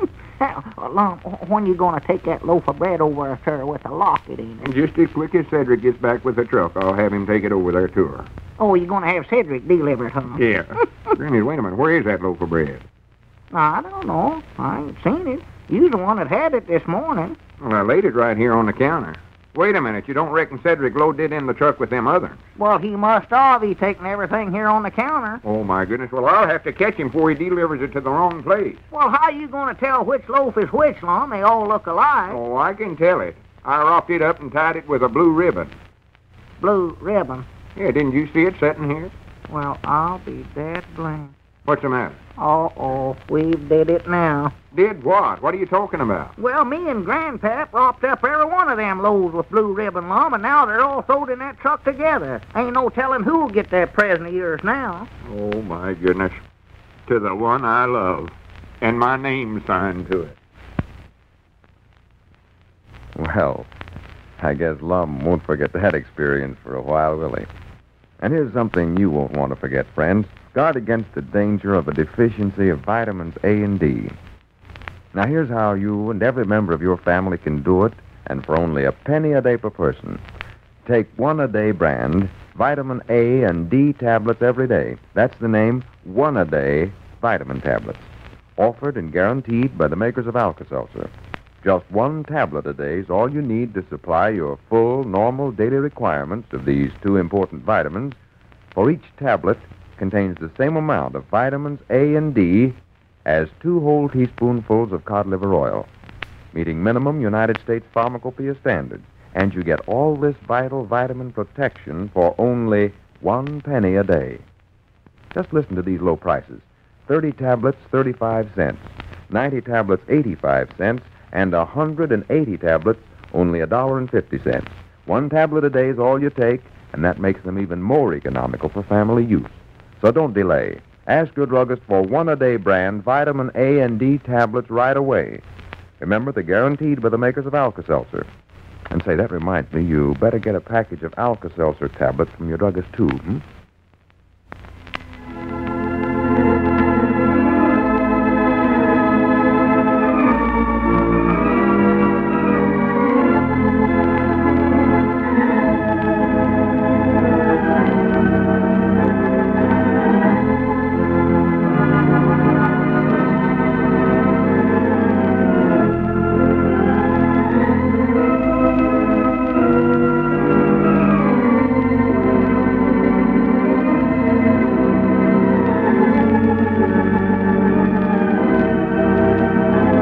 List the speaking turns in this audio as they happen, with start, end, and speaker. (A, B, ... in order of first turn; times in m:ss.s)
0:00.4-0:04.7 A
0:04.6-0:08.3 B
0:08.6-0:10.4 A
0:10.4-0:12.8 B
0:13.5-0:17.4 A
0:17.6-0:22.4 B
0:22.6-0:25.4 A
0:25.4-0:28.8 B
0:28.9-0:32.4 A
0:32.3-0:35.7 B
0:36.6-0:37.4 A
0:37.8-0:39.1 B
0:39.5-0:41.3 A
0:41.7-0:42.2 B
0:42.4-0:44.5 A
0:44.7-0:46.3 B
0:46.4-0:55.1 A
0:55.2-0:56.4 B
0:57.1-1:00.4 B
1:03.2-1:03.7 C
1:04.4-1:07.5 C
1:08.2-1:14.2 C
1:15.1-1:20.2 C
1:20.9-1:31.1 C
1:31.6-1:38.2 C
1:38.8-1:45.9 C
1:46.5-1:54.4 C
1:55.3-2:15.4 C
2:16.0-2:18.3 C
2:18.9-2:23.4 C